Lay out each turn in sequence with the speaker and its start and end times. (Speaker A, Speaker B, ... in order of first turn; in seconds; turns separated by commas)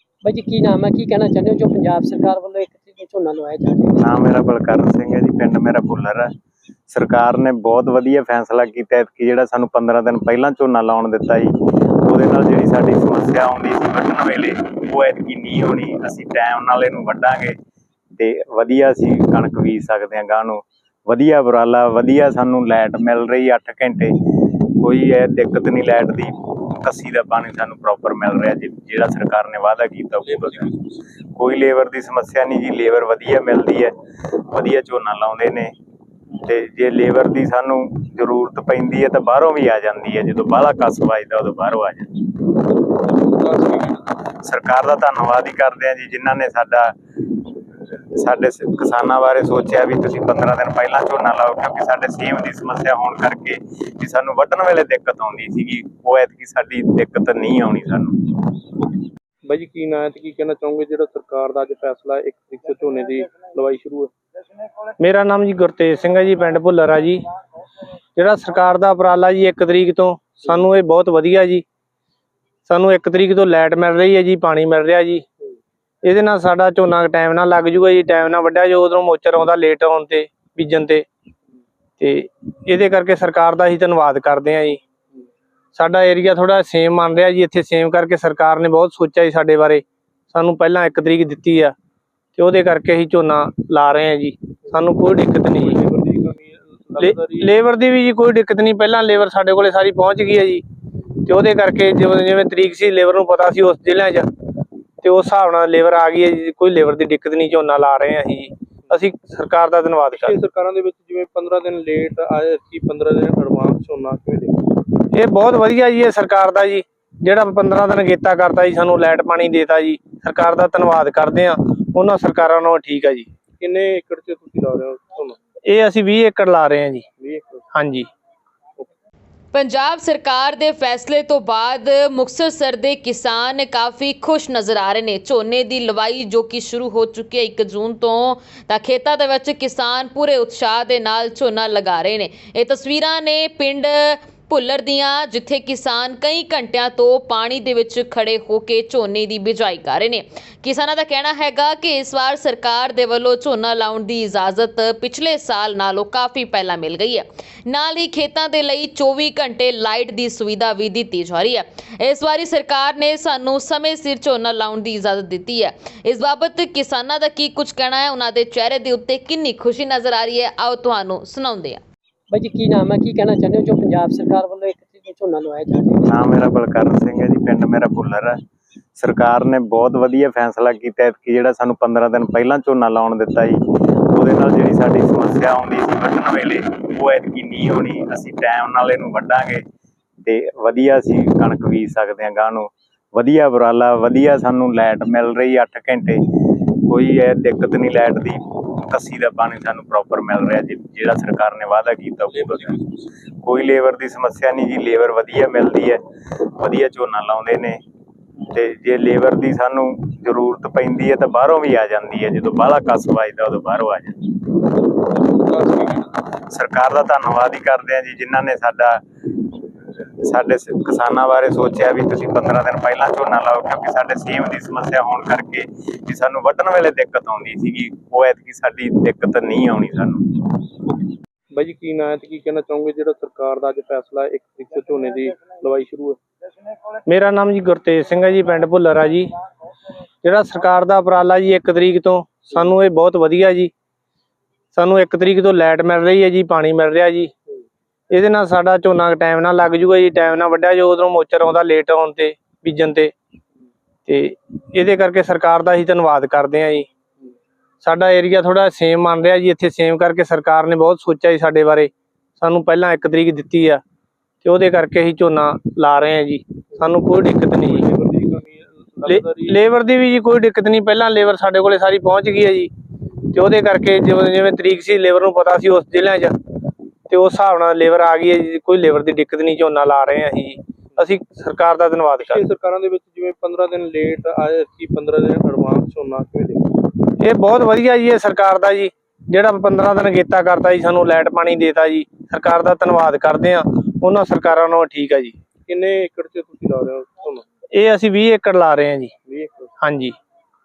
Speaker A: 0.2-4.2, Speaker B: 4.0-6.3, Speaker B: 6.9-17.6, Speaker B: 18.2-30.8, Speaker B: 31.4-35.8, Speaker B: 36.5-42.2, Speaker C: 42.9-44.2, Speaker B: 44.4-46.9, Speaker B: 48.1-58.3, Speaker C: 59.5-64.1, Speaker D: 65.0-67.2, Speaker D: 68.2-71.6, Speaker D: 72.7-75.2, Speaker D: 76.0-81.1, Speaker D: 82.0-84.8, Speaker D: 85.8-91.7, Speaker D: 92.4-95.8, Speaker C: 95.5-97.5, Speaker D: 97.0-100.6, Speaker D: 101.3-104.3, Speaker D: 105.0-110.4, Speaker C: 110.2-114.6, Speaker D: 115.1-123.3, Speaker C: 123.6-125.4, Speaker D: 125.7-127.1, Speaker C: 127.2-127.7, Speaker D: 127.7-128.1, Speaker E: 129.5-171.8, Speaker A: 172.3-176.3, Speaker B: 176.1-178.4, Speaker B: 179.0-189.7, Speaker B: 190.2-202.8, Speaker B: 203.4-207.8, Speaker B: 208.5-214.2, Speaker C: 214.9-216.2, Speaker B: 216.5-219.0, Speaker B: 220.2-230.4, Speaker C: 231.5-236.2, Speaker D: 237.1-239.3, Speaker D: 240.2-243.7, Speaker D: 244.7-247.3, Speaker D: 248.1-253.1, Speaker D: 254.1-256.9, Speaker D: 257.8-263.8, Speaker D: 264.4-267.9, Speaker C: 267.5-269.6, Speaker D: 269.1-272.7, Speaker D: 273.3-276.4, Speaker D: 277.1-282.4, Speaker C: 282.2-286.7, Speaker D: 287.2-295.4, Speaker C: 295.7-297.4, Speaker D: 297.7-299.1, Speaker C: 299.2-299.7, Speaker D: 299.8-300.2